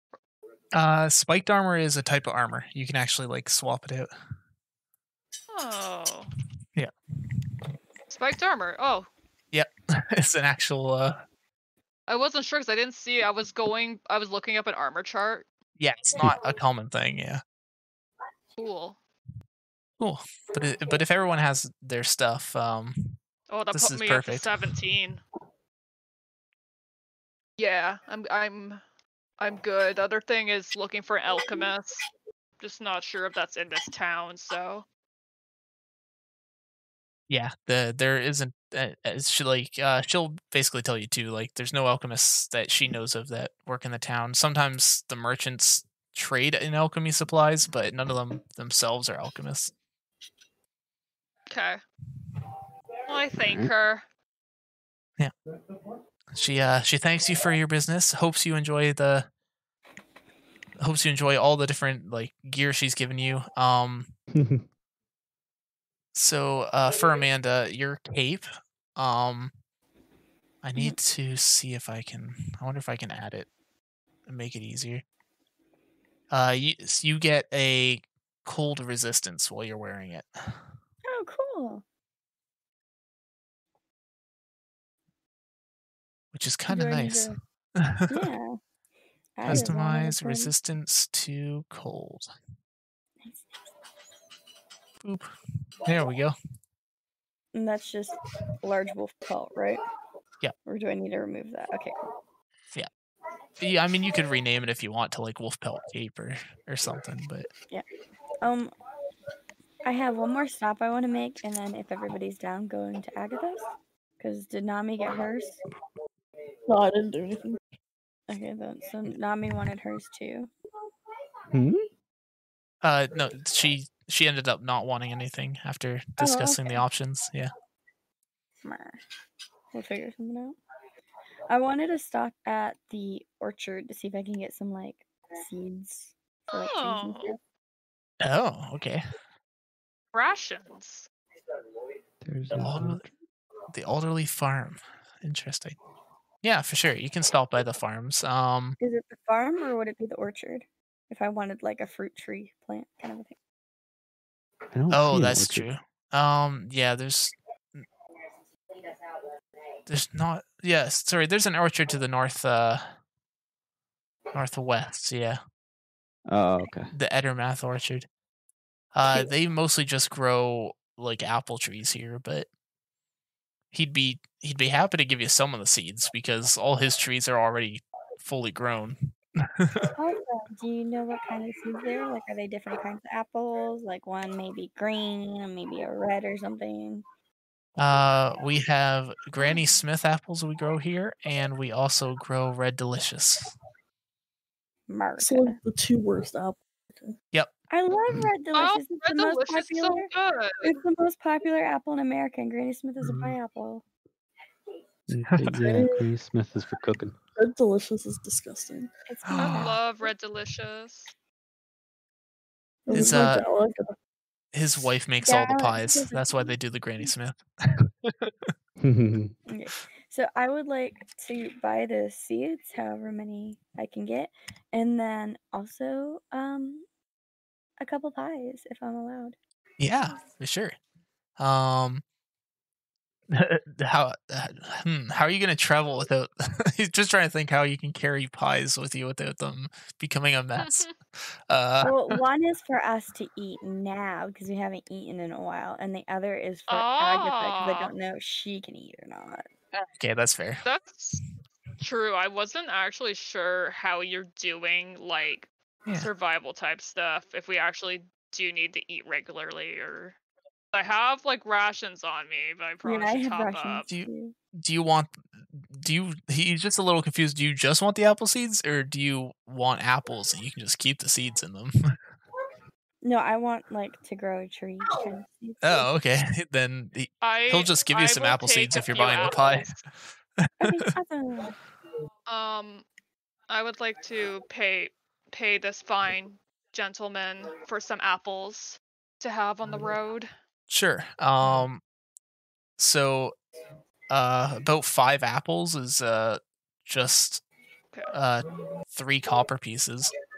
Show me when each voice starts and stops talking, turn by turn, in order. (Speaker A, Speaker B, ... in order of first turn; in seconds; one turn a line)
Speaker A: 0.7-4.1
Speaker B: 5.5-6.3
Speaker B: 8.1-9.1
Speaker A: 9.5-11.2
Speaker B: 12.1-15.5
Speaker A: 15.8-17.4
Speaker B: 18.6-19.0
Speaker A: 20.0-23.2
Speaker B: 23.5-25.2
Speaker A: 23.7-24.5
Speaker B: 27.6-28.8
Speaker B: 29.4-32.0
Speaker B: 32.6-34.8
Speaker A: 37.3-49.7
Speaker B: 51.5-51.8
Speaker B: 53.1-54.0
Speaker A: 56.3-59.3
Speaker A: 60.8-64.1
Speaker C: 64.3-64.6
Speaker A: 66.1-69.5
Speaker A: 70.6-73.5
Speaker A: 74.3-75.0
Speaker A: 76.3-80.6
Speaker D: 81.0-81.8
Speaker A: 86.3-88.3
Speaker D: 86.7-87.4
Speaker D: 88.1-88.6
Speaker D: 89.4-90.5
Speaker A: 89.4-92.3
Speaker A: 95.0-95.3
Speaker A: 95.8-96.3
Speaker D: 97.5-99.8
Speaker D: 100.7-102.0
Speaker A: 103.6-107.5
Speaker D: 108.4-108.7
Speaker D: 109.8-113.7
Speaker D: 114.2-115.6
Speaker E: 116.7-117.6
Speaker D: 118.3-120.5
Speaker C: 121.5-121.9
Speaker A: 122.8-127.5
Speaker D: 126.2-126.8
Speaker D: 128.6-129.0
Speaker D: 129.7-130.6
Speaker D: 131.5-137.4
Speaker B: 136.5-137.3
Speaker A: 138.2-139.0
Speaker B: 140.1-141.1
Speaker C: 142.2-143.1
Speaker A: 142.6-143.1
Speaker A: 143.7-145.8
Speaker A: 146.4-148.8
Speaker D: 148.8-153.3
Speaker C: 154.7-155.7
Speaker A: 154.9-157.8
Speaker A: 159.9-162.8
Speaker A: 164.3-165.4
Speaker C: 166.2-166.9
Speaker A: 166.9-168.1
Speaker A: 168.9-172.5
Speaker A: 173.7-179.9
Speaker D: 179.9-187.0
Speaker A: 187.8-193.5
Speaker D: 194.9-195.6
Speaker E: 195.2-197.1
Speaker D: 197.7-200.1
Speaker B: 198.5-200.7
Speaker D: 200.6-203.8
Speaker C: 205.1-207.2
Speaker A: 205.2-205.7
Speaker E: 205.6-206.0
Speaker E: 207.3-208.9
Speaker D: 209.1-209.8
Speaker A: 209.2-209.8
Speaker B: 209.3-211.1
Speaker E: 212.9-213.9
Speaker A: 212.9-213.4
Speaker A: 214.5-218.5
Speaker D: 215.2-216.6
Speaker C: 218.8-219.3
Speaker D: 219.5-226.8
Speaker D: 227.8-229.3
Speaker A: 229.8-230.8
Speaker A: 231.4-232.0
Speaker A: 233.3-240.9
Speaker B: 240.6-240.9
Speaker A: 241.5-242.2
Speaker D: 241.8-249.5
Speaker B: 246.7-247.9
Speaker A: 249.9-250.6
Speaker B: 250.6-251.2
Speaker B: 251.8-260.2
Speaker B: 260.7-263.9
Speaker D: 262.8-264.3
Speaker A: 264.6-271.9
Speaker D: 273.0-275.9
Speaker A: 275.6-279.7
Speaker B: 277.2-279.8
Speaker A: 280.4-280.9
Speaker D: 280.6-281.5
Speaker B: 282.3-282.8
Speaker B: 283.5-290.3
Speaker A: 290.7-291.8
Speaker A: 292.8-293.3
Speaker A: 294.1-297.4
Speaker A: 298.1-300.1